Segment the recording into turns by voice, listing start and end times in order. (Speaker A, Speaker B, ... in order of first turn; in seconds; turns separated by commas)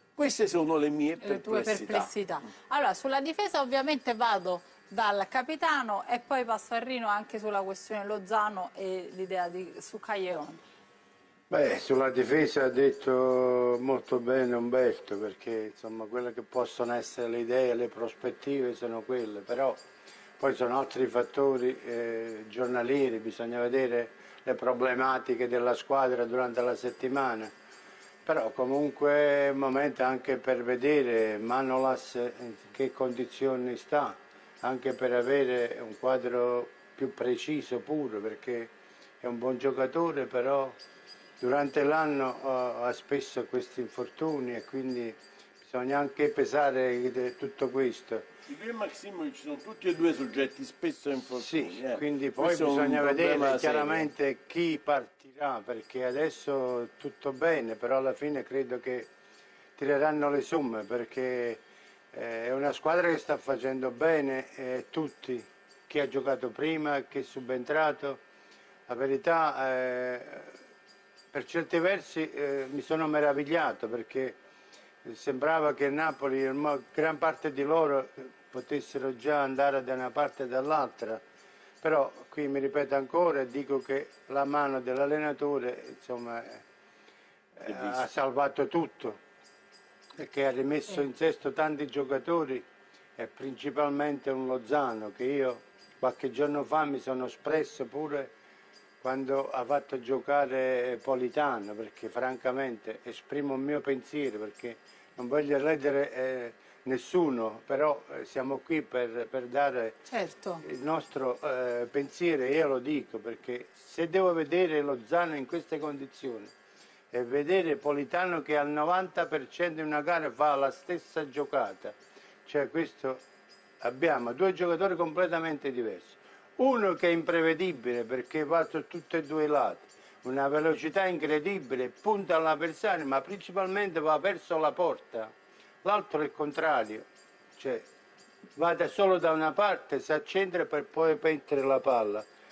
Speaker A: 0.2-2.1, Speaker B: 1.2-10.6, Speaker C: 11.5-19.8, Speaker C: 20.4-27.5, Speaker C: 28.2-40.8, Speaker C: 41.4-48.3, Speaker A: 48.5-54.1, Speaker C: 51.4-59.1, Speaker C: 59.8-61.6, Speaker C: 62.1-68.2, Speaker C: 68.9-70.5, Speaker C: 71.3-74.4, Speaker C: 75.0-81.2, Speaker C: 81.8-86.6, Speaker C: 87.6-89.2, Speaker A: 87.7-88.0, Speaker C: 90.2-92.7, Speaker C: 93.2-98.3, Speaker C: 99.0-110.0, Speaker B: 110.1-110.6, Speaker C: 110.7-116.5, Speaker C: 117.1-123.2, Speaker C: 123.8-135.3, Speaker C: 135.8-137.9, Speaker C: 138.6-142.3